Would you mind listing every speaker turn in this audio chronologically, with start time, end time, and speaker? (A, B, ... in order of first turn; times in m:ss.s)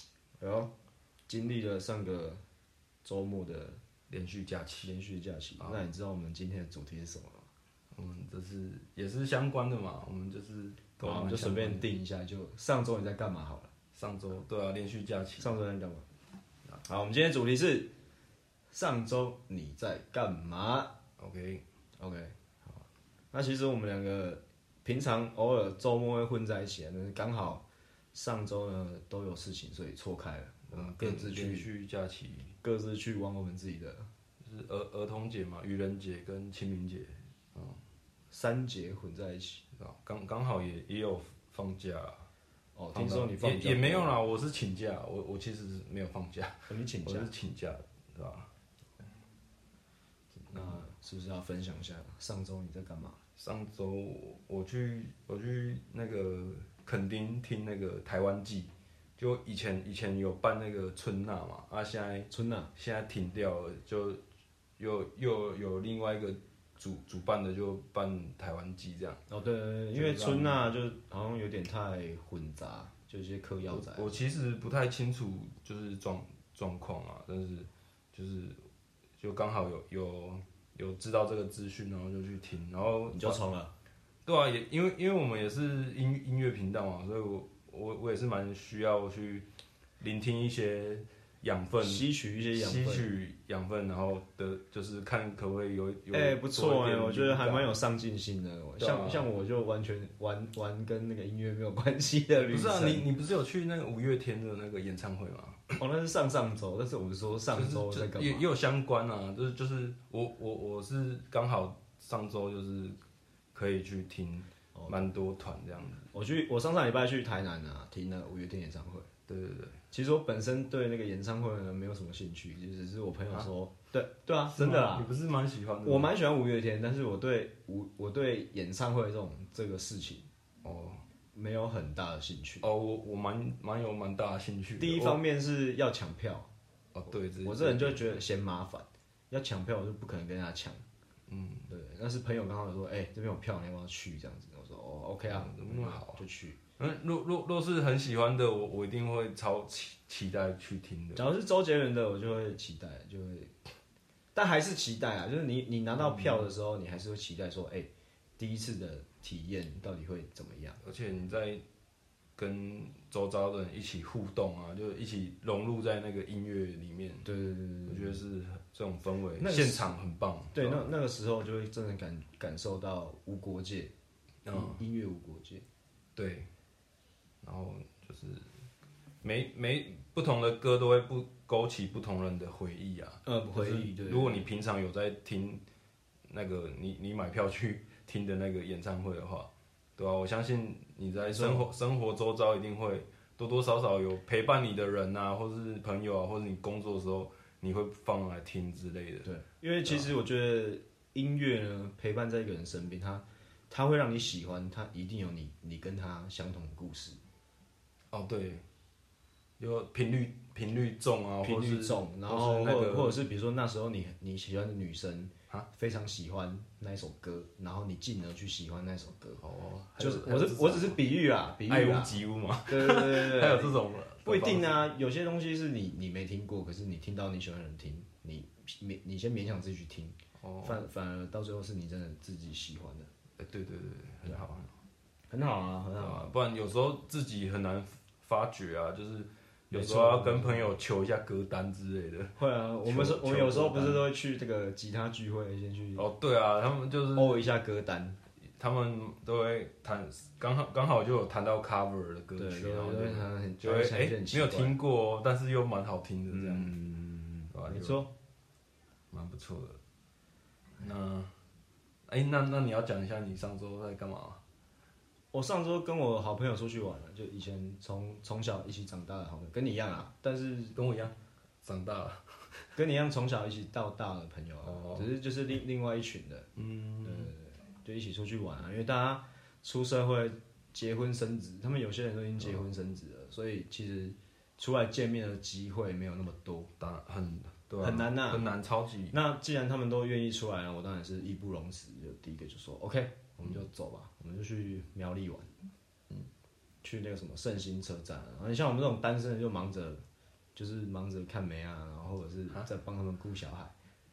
0:00.4-0:00.7 A
0:01.3-0:02.4 A
0:03.0-0:03.8 A
0:04.1-0:04.9 B
0:04.8-0:07.5 A
0:07.9-0:11.9 B
0:11.0-0:13.7 A
0:13.9-0:15.5 B
0:15.4-0:16.0 A
0:16.8-0:17.9 A
0:18.7-0:20.9 A
0:21.2-0:21.6 B
0:22.0-0:31.7 A
0:30.7-0:32.6 B
0:32.6-0:34.1 A
0:34.4-0:37.8 B
0:38.3-0:39.6 A
0:39.8-0:42.3 B
0:42.8-0:44.2 A
0:42.9-0:48.5 B
0:46.7-0:47.3 A
0:50.5-0:53.2 A
0:50.5-0:50.8 B
0:53.4-1:04.2 B
1:02.3-1:02.7 A
1:04.8-1:09.2 B
1:09.3-1:14.2 A
1:09.9-1:10.7 B
1:13.7-1:18.6 B
1:19.2-1:23.4 B
1:23.1-1:23.7 A
1:24.2-1:29.5 B
1:30.0-1:37.7 B
1:31.8-1:33.1 A
1:36.1-1:43.1 A
1:38.8-1:39.3 B
1:42.4-1:45.7 B
1:45.7-1:48.4 A
1:47.5-1:53.0 B
1:53.5-1:56.1 B
1:54.7-1:55.1 A
1:56.1-1:59.1 A
1:59.3-1:59.8 B
1:59.9-2:05.1 A
2:04.5-2:06.1 B
2:05.8-2:10.3 A
2:10.6-2:11.0 B
2:11.3-2:12.6 A
2:12.6-2:15.2 B
2:14.8-2:16.5 A
2:16.9-2:18.2 B
2:17.4-2:20.8 A
2:21.3-2:21.7 B
2:21.7-2:26.6 A
2:25.2-2:26.2 B
2:26.8-2:31.2 B
2:31.2-2:33.5 A
2:34.3-2:40.8 A
2:36.0-2:36.5 B
2:40.8-2:41.6 B
2:42.4-2:47.2 B
2:47.2-2:48.2 A
2:47.9-2:50.9 B
2:49.4-2:50.0 A
2:50.5-2:53.9 A
2:54.4-2:54.8 B
2:54.5-2:55.6 A
2:56.2-2:56.5 B
2:57.4-2:58.5 B
2:59.2-3:05.6 B
3:03.2-3:04.5 A
3:06.3-3:19.3 B
3:11.2-3:11.7 A
3:19.2-3:27.2 A
3:28.1-3:28.6 B
3:29.6-3:33.2 B
3:31.4-3:39.4 A
3:39.4-3:41.0 B
3:40.0-3:53.1 A
3:41.6-3:44.8 B
3:50.4-3:50.8 B
3:53.4-3:54.7 B
3:55.3-3:56.2 A
3:56.0-4:04.1 B
3:59.7-4:00.7 A
4:02.4-4:06.0 A
4:06.0-4:07.4 B
4:07.1-4:08.2 A
4:08.6-4:16.7 B
4:12.4-4:14.8 A
4:16.3-4:18.1 A
4:17.5-4:18.0 B
4:19.1-4:19.8 B
4:20.8-4:21.3 B
4:22.1-4:24.4 B
4:25.3-4:30.8 A
4:30.7-4:32.6 B
4:32.8-4:36.5 A
4:34.6-4:35.1 B
4:36.6-4:37.3 B
4:37.0-4:46.7 A
4:46.8-4:49.2 B
4:47.8-4:48.4 A
4:49.1-4:55.5 A
4:56.8-5:00.0 A
5:00.6-5:03.7 A